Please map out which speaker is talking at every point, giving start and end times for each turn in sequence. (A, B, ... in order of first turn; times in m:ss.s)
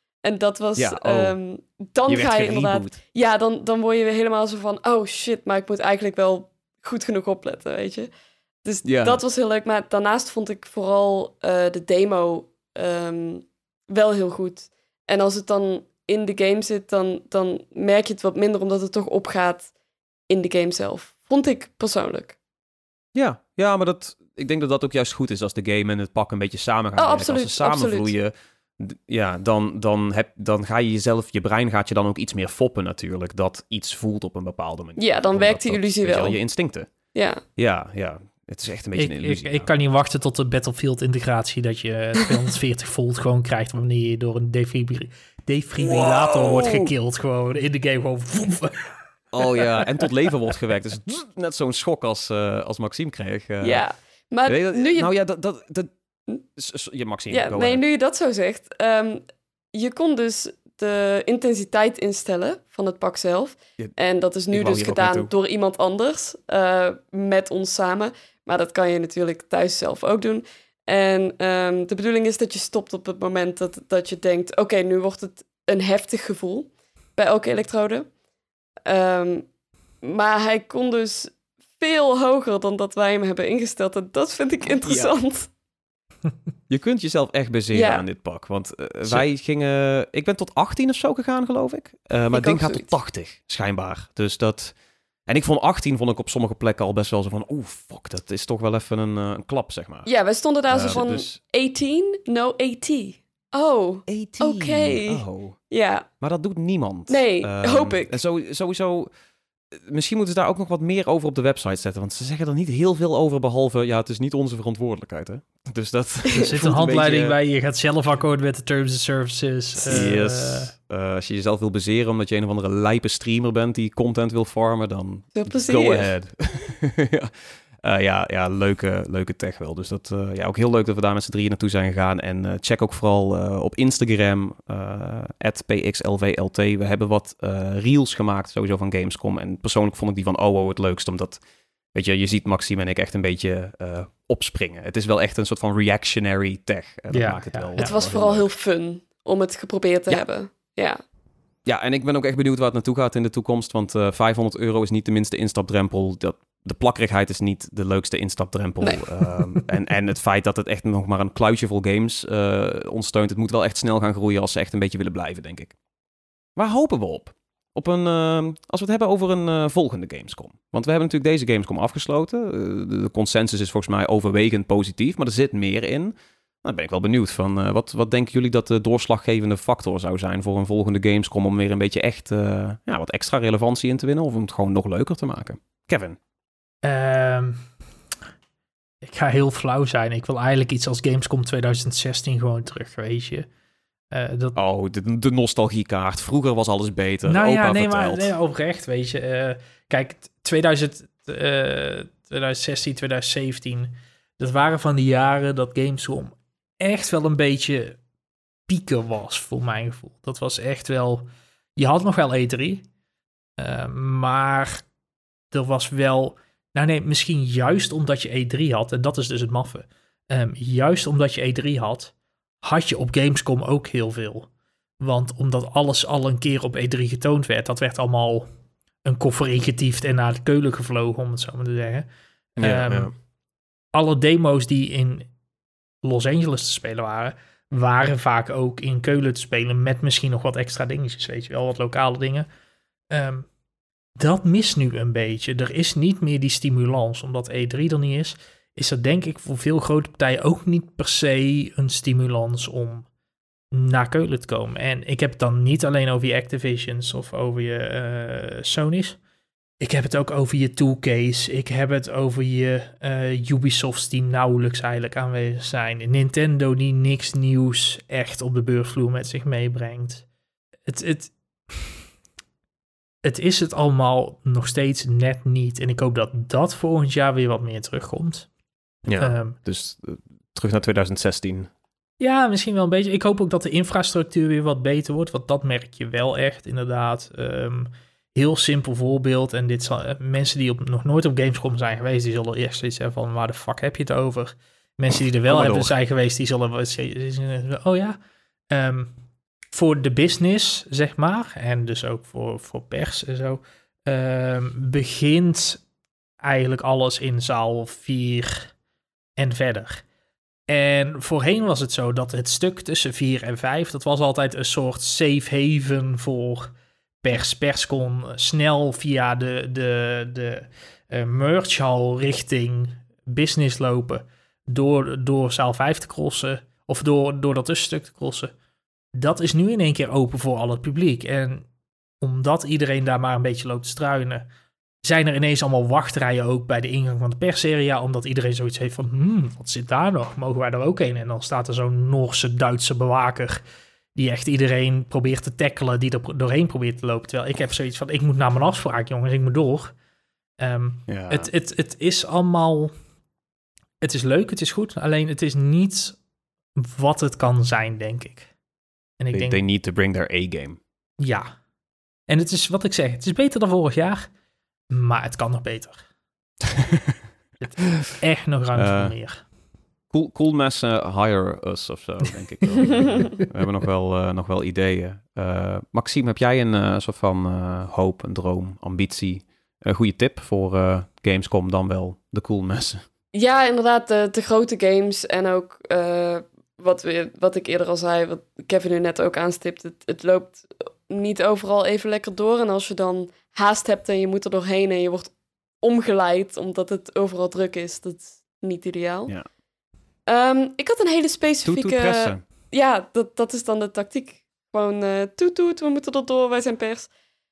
0:00.2-0:08.1 A
0:00.8-0:01.3 B
0:02.1-0:03.0 B
0:08.6-0:19.7 A
0:08.8-0:09.2 B
0:20.3-0:22.4 A
0:23.1-0:36.9 B
0:27.0-0:28.1 A
0:35.0-0:36.4 A
0:37.1-0:37.4 A
0:37.6-0:39.7 B
0:38.9-0:48.9 C
0:45.8-0:46.9 B
0:49.3-0:53.8 B
0:53.6-0:55.1 A
0:54.4-0:55.9 B
0:56.6-0:57.8 B
0:57.3-1:18.1 A
1:04.5-1:05.3 B
1:18.8-1:19.4 A
1:20.0-1:25.5 A
1:24.8-1:25.1 B
1:26.7-1:34.7 B
1:27.7-1:28.0 A
1:32.3-1:32.9 A
1:35.3-1:40.1 B
1:40.0-1:46.1 A
1:40.7-1:41.4 B
1:44.1-1:45.6 B
1:46.2-1:49.1 B
1:47.1-1:48.2 A
1:49.7-1:57.4 B
1:56.4-2:00.7 C
1:59.8-2:21.4 B
2:05.3-2:06.1 A
2:21.9-2:28.5 B
2:27.1-2:27.9 C
2:27.8-2:31.0 A
2:31.6-2:45.7 B
2:46.6-3:06.2 B
3:06.8-3:07.6 C
3:09.0-3:13.5 C
3:14.1-3:14.6 C
3:14.5-3:18.3 B
3:17.2-3:28.0 C
3:28.7-3:32.8 C
3:33.6-3:34.8 C
3:35.5-3:44.5 C
3:45.0-3:48.5 C
3:49.0-3:53.1 C
3:52.6-3:53.1 B
3:53.9-3:55.3 C
3:56.0-4:02.5 C
4:03.1-4:03.5 C
4:04.2-4:13.1 C
4:13.7-4:19.2 C
4:19.8-4:30.2 C
4:30.9-4:31.9 C
4:33.2-4:38.5 C
4:39.0-4:41.7 B
4:39.2-4:39.6 C
4:42.2-4:58.2 C
4:55.5-4:55.9 B
4:58.7-4:59.1 C
4:59.7-5:05.8 C
5:06.4-5:08.7 C
5:09.4-5:10.0 C
5:10.7-5:28.5 C
5:29.1-5:31.6 C
5:32.2-5:34.5 C
5:35.0-5:43.6 C
5:44.1-5:49.9 C
5:50.6-5:52.9 C
5:51.1-5:51.5 B
5:54.0-5:56.2 C
5:56.8-5:58.5 C
5:59.2-5:59.6 C
5:59.3-6:00.8 B
6:01.2-6:01.5 C
6:02.3-6:04.3 C
6:04.9-6:06.0 C
6:06.7-6:07.2 B
6:07.6-6:09.4 C
6:08.7-6:09.1 B
6:10.1-6:23.0 B
6:23.3-6:39.3 A
6:40.3-6:47.1 A
6:41.6-6:42.4 B